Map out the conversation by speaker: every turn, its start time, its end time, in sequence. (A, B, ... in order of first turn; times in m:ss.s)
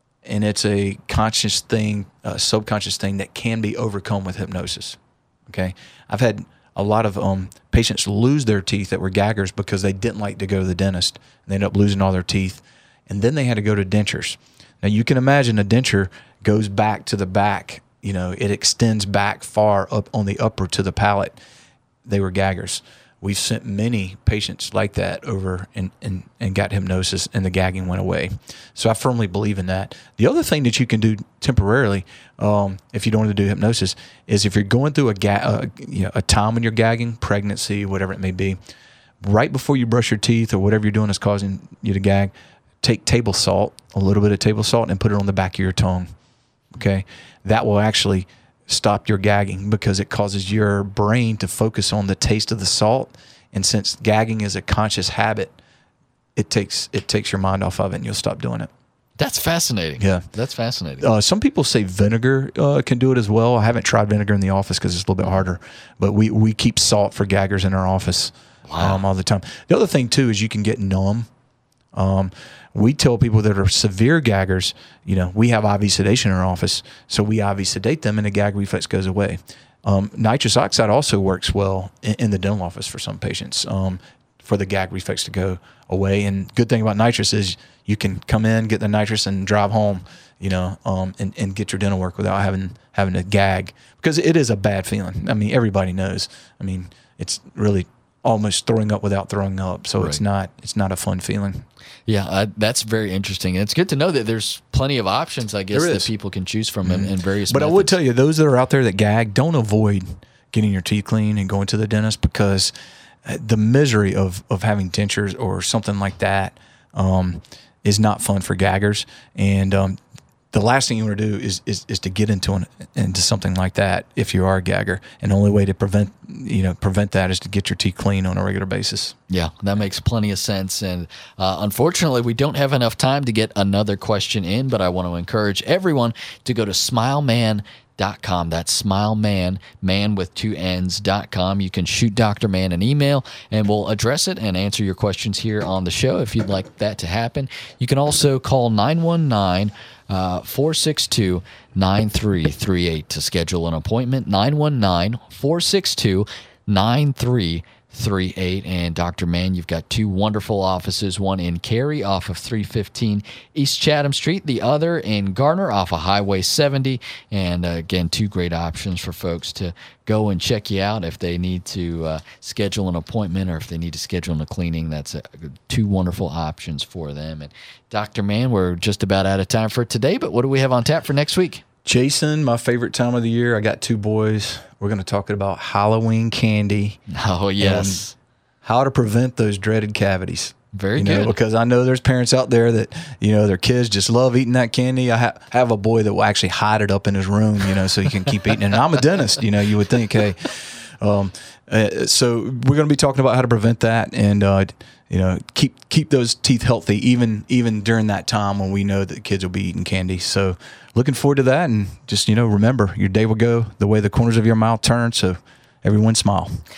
0:00.2-0:21.4 A
0:22.0-0:38.6 A
0:39.2-0:46.1 A
0:46.7-0:55.6 A
0:56.4-0:58.7 A
0:59.2-1:01.1 B
1:00.0-1:00.2 A
1:01.0-1:11.3 A
1:08.7-1:09.0 B
1:11.9-1:41.6 A
1:42.1-1:48.0 B
1:45.7-1:46.1 A
1:46.8-1:52.7 A
1:53.2-2:00.0 A
2:00.5-2:09.2 A
2:09.3-3:01.6 B
3:01.8-3:07.0 A
3:07.1-3:08.2 B
3:07.6-3:08.0 A
3:08.6-3:36.6 A
3:10.7-3:11.4 B